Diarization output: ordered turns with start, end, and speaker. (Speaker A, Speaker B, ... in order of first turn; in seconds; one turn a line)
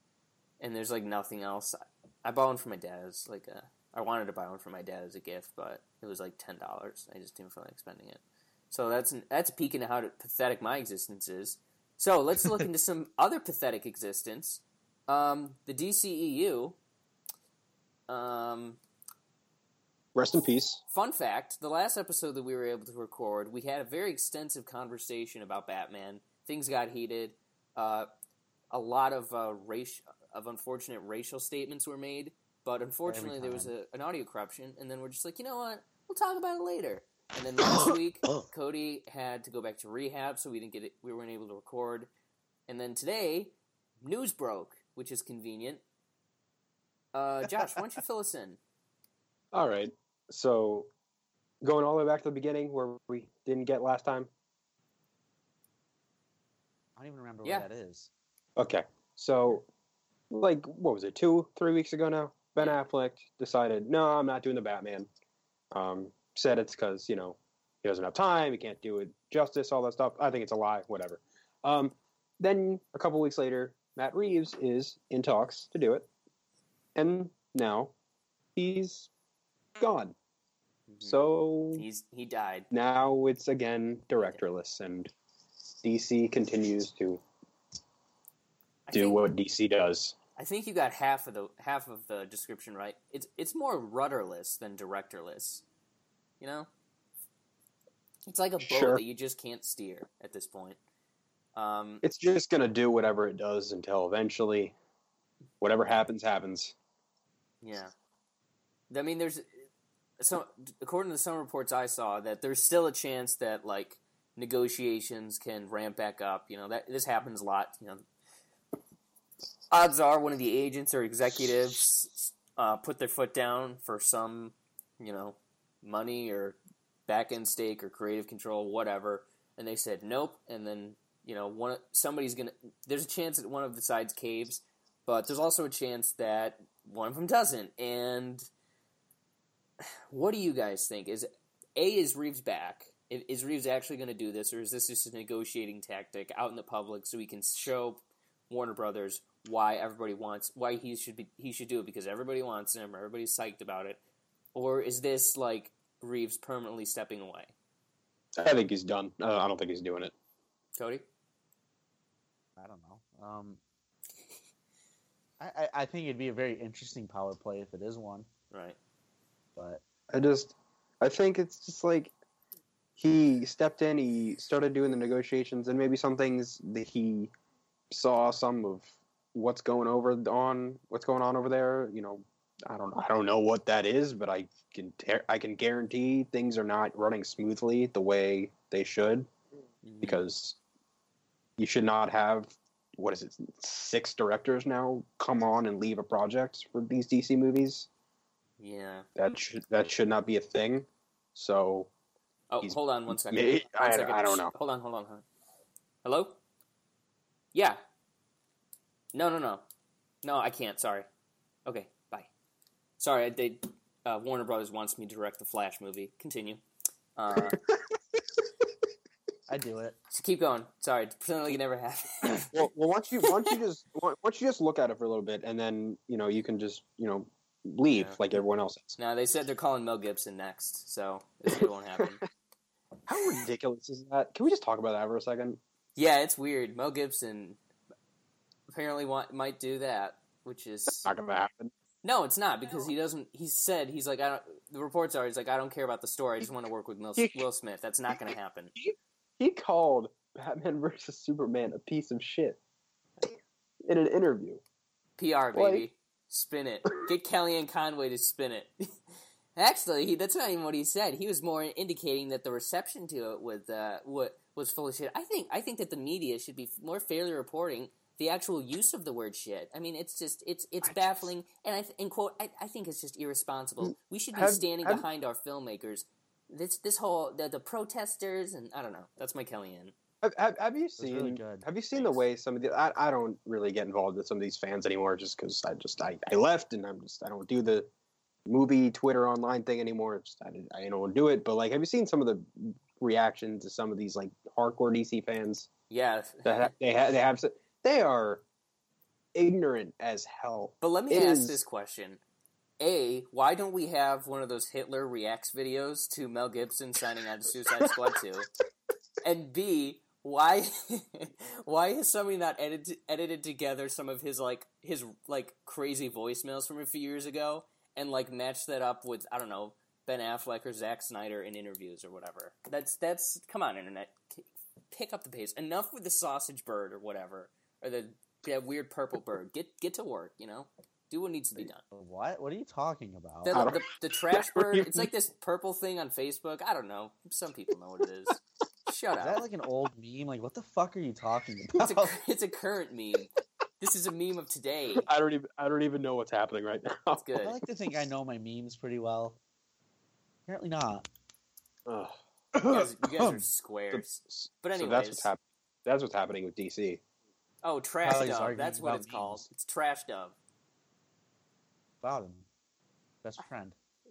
Speaker A: 0.6-16.8
Speaker A: 18.1-18.8
Speaker B: 20.1-20.8
Speaker A: 20.9-28.1
Speaker A: 28.7-42.1
Speaker C: 33.1-33.7
Speaker A: 42.7-45.8
Speaker A: 47.1-48.6
Speaker B: 49.5-50.9
Speaker B: 51.6-54.3
Speaker C: 57.0-58.1
Speaker B: 58.6-59.6
Speaker B: 60.3-65.1
Speaker B: 65.7-76.1
Speaker B: 77.0-77.9
Speaker B: 78.6-79.1
Speaker B: 79.8-80.2
Speaker A: 80.9-81.2
Speaker B: 81.0-81.9
Speaker A: 81.7-82.7
Speaker B: 82.7-85.1
Speaker B: 85.8-87.2
Speaker A: 88.9-89.2
Speaker B: 88.9-90.2
Speaker A: 90.4-95.7
Speaker A: 96.4-96.7
Speaker A: 98.3-100.8
Speaker B: 98.6-99.0
Speaker A: 101.5-102.0
Speaker B: 102.0-104.8
Speaker B: 105.6-106.8
Speaker A: 107.6-107.9
Speaker A: 108.9-109.7
Speaker A: 110.2-118.0
Speaker A: 119.7-138.5
Speaker A: 139.8-154.0
Speaker A: 154.6-157.5
Speaker B: 158.4-160.1
Speaker A: 160.8-161.1
Speaker C: 162.6-163.6
Speaker C: 165.4-168.3
Speaker A: 168.5-168.8
Speaker C: 169.6-169.8
Speaker B: 170.1-172.1
Speaker B: 173.0-177.3
Speaker B: 177.9-189.3
Speaker A: 189.8-190.2
Speaker B: 190.0-190.6
Speaker B: 191.6-197.9
Speaker A: 198.6-199.1
Speaker B: 199.2-201.9
Speaker A: 202.5-205.2
Speaker B: 202.6-204.5
Speaker A: 206.0-206.4
Speaker A: 207.5-207.8
Speaker A: 209.1-209.6
Speaker A: 210.2-211.1
Speaker A: 211.7-212.3
Speaker A: 213.0-216.6
Speaker A: 217.2-217.6
Speaker C: 219.5-220.0
Speaker A: 220.1-222.7
Speaker B: 222.3-229.0
Speaker A: 227.9-228.2
Speaker A: 229.0-232.2
Speaker B: 231.6-232.2
Speaker B: 233.1-235.6
Speaker A: 236.0-237.6
Speaker A: 238.7-241.1
Speaker B: 241.0-241.7
Speaker A: 242.0-248.7
Speaker B: 247.2-247.4
Speaker B: 248.8-252.6
Speaker B: 253.2-254.6
Speaker A: 255.2-258.7
Speaker B: 255.5-255.9
Speaker A: 259.6-279.9
Speaker B: 270.8-271.3
Speaker B: 273.8-275.1
Speaker B: 280.2-287.9
Speaker C: 281.0-281.7
Speaker A: 281.9-282.2
Speaker B: 288.5-295.7
Speaker A: 295.9-296.7
Speaker B: 296.4-298.4
Speaker B: 299.4-301.6
Speaker A: 300.8-302.2
Speaker A: 302.8-308.5
Speaker A: 309.2-331.8
Speaker C: 331.9-333.7
Speaker A: 333.4-339.4
Speaker B: 333.5-335.1
Speaker C: 339.2-342.2
Speaker A: 342.1-345.1
Speaker B: 345.0-347.2
Speaker A: 347.1-347.6
Speaker C: 347.4-349.4
Speaker C: 350.5-351.1
Speaker B: 351.9-352.2
Speaker C: 352.6-353.4
Speaker A: 352.7-355.3
Speaker B: 353.9-357.0
Speaker A: 357.6-360.4
Speaker C: 358.0-359.5
Speaker C: 362.0-362.5
Speaker C: 363.2-363.8